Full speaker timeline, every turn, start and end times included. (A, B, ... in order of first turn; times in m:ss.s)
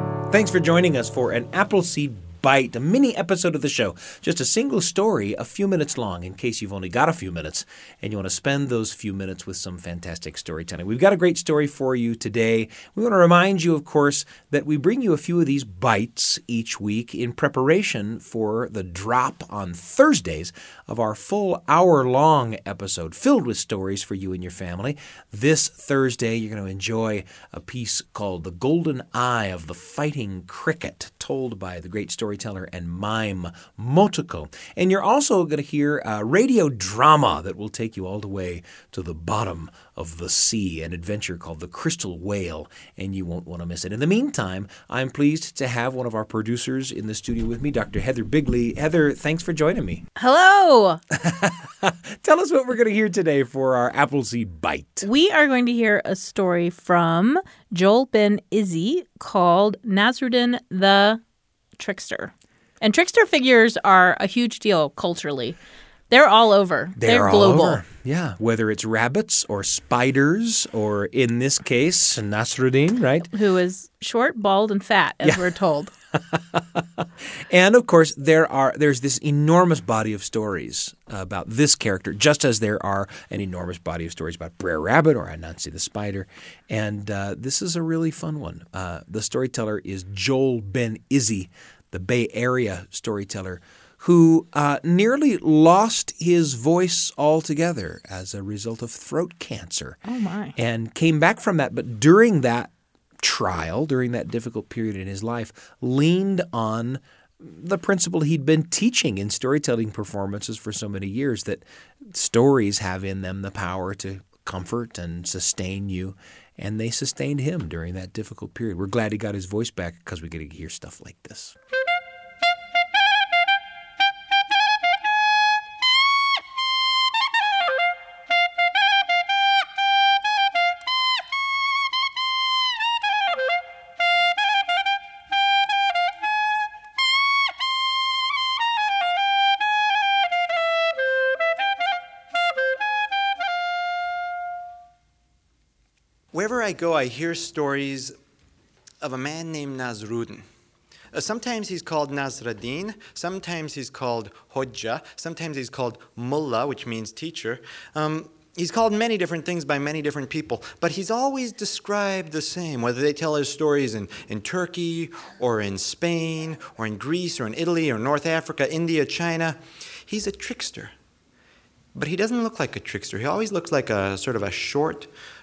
0:00.3-0:50.0 A
0:50.2-0:51.0 B
0:51.1-0:55.1 A
0:55.0-1:01.2 B
1:01.8-1:05.6 B
1:06.1-1:07.8 B
1:07.0-1:13.3 A
1:13.3-1:15.9 B
1:16.1-1:40.0 A
1:40.0-1:40.6 B
1:40.6-1:42.7 A
1:43.2-2:01.6 A
2:26.3-2:28.1 C
2:29.0-2:30.4 C
2:31.1-2:50.9 C
2:51.9-2:55.1 C